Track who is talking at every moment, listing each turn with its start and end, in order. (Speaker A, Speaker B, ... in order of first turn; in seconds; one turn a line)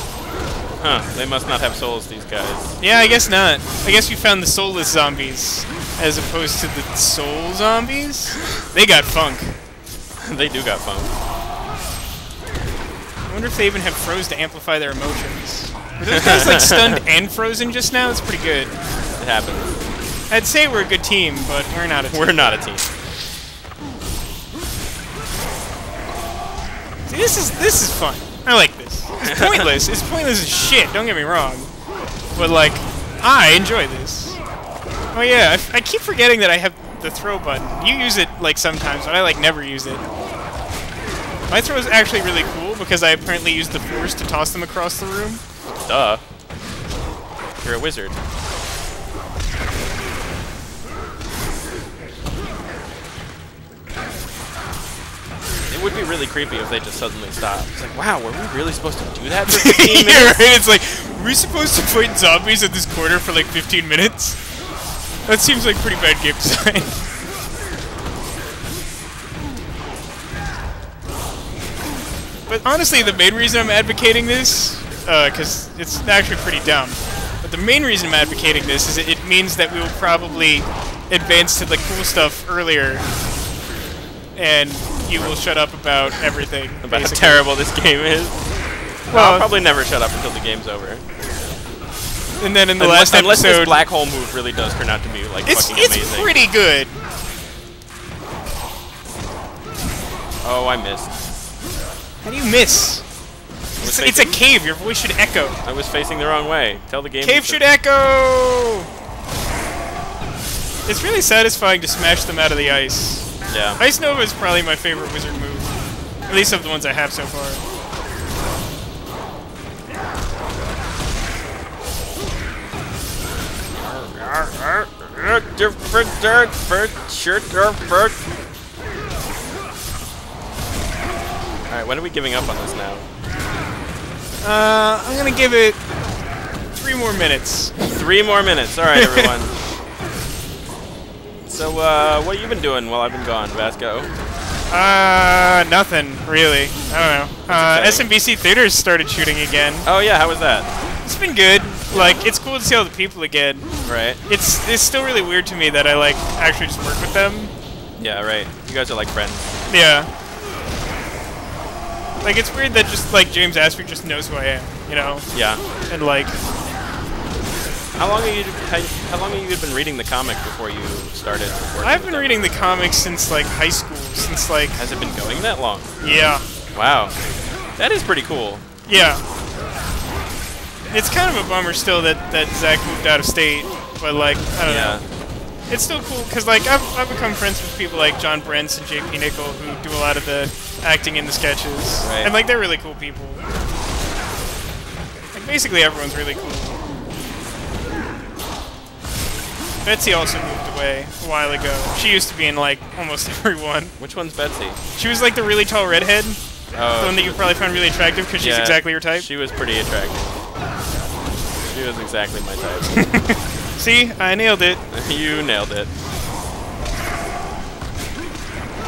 Speaker A: 0.8-2.8
Speaker B: 2.8-9.6
Speaker A: 10.2-11.1
Speaker B: 13.3-18.8
Speaker A: 16.1-17.0
Speaker A: 19.2-19.8
Speaker B: 20.3-22.5
Speaker A: 22.1-22.9
Speaker B: 27.1-31.7
Speaker A: 29.2-29.7
Speaker B: 32.4-34.4
Speaker B: 35.1-40.0
Speaker B: 41.5-45.4
Speaker A: 45.7-46.2
Speaker A: 47.6-48.2
Speaker A: 55.7-60.4
Speaker B: 59.5-64.4
Speaker B: 65.3-67.1
Speaker B: 72.5-83.1
Speaker B: 84.3-87.4
Speaker A: 86.8-88.4
Speaker A: 89.1-91.0
Speaker B: 89.1-89.5
Speaker B: 92.4-93.8
Speaker A: 92.8-96.4
Speaker B: 95.5-97.0
Speaker A: 100.4-101.1
Speaker B: 102.2-103.0
Speaker A: 103.8-104.4
Speaker B: 103.8-105.6
Speaker A: 105.6-107.6
Speaker B: 107.2-108.9
Speaker B: 110.9-117.6
Speaker A: 113.5-113.8
Speaker A: 123.8-128.2
Speaker A: 131.7-133.1
Speaker B: 134.4-135.8
Speaker B: 136.7-138.1
Speaker A: 137.9-139.6
Speaker B: 138.9-139.3
Speaker A: 141.4-144.1
Speaker B: 144.7-149.9
Speaker A: 147.5-148.1
Speaker A: 149.8-150.7
Speaker B: 151.0-153.7
Speaker A: 151.9-152.2
Speaker A: 153.9-154.2
Speaker B: 154.3-157.5
Speaker A: 158.0-159.7
Speaker B: 159.7-160.1
Speaker B: 162.2-165.3
Speaker A: 165.3-165.6
Speaker B: 165.9-166.4
Speaker A: 167.9-172.5
Speaker B: 171.8-174.8
Speaker A: 174.8-175.9
Speaker B: 176.0-176.4
Speaker A: 176.7-177.2
Speaker A: 177.8-178.6
Speaker B: 178.9-179.2
Speaker B: 180.9-185.0
Speaker A: 184.6-185.1
Speaker B: 185.7-193.4
Speaker A: 192.0-192.3
Speaker B: 195.3-196.8
Speaker B: 199.8-203.9
Speaker A: 204.0-204.8
Speaker B: 204.9-206.4
Speaker A: 206.7-207.4
Speaker B: 207.0-209.3
Speaker A: 208.4-210.4
Speaker A: 211.7-213.0
Speaker B: 212.9-214.8
Speaker A: 214.9-215.9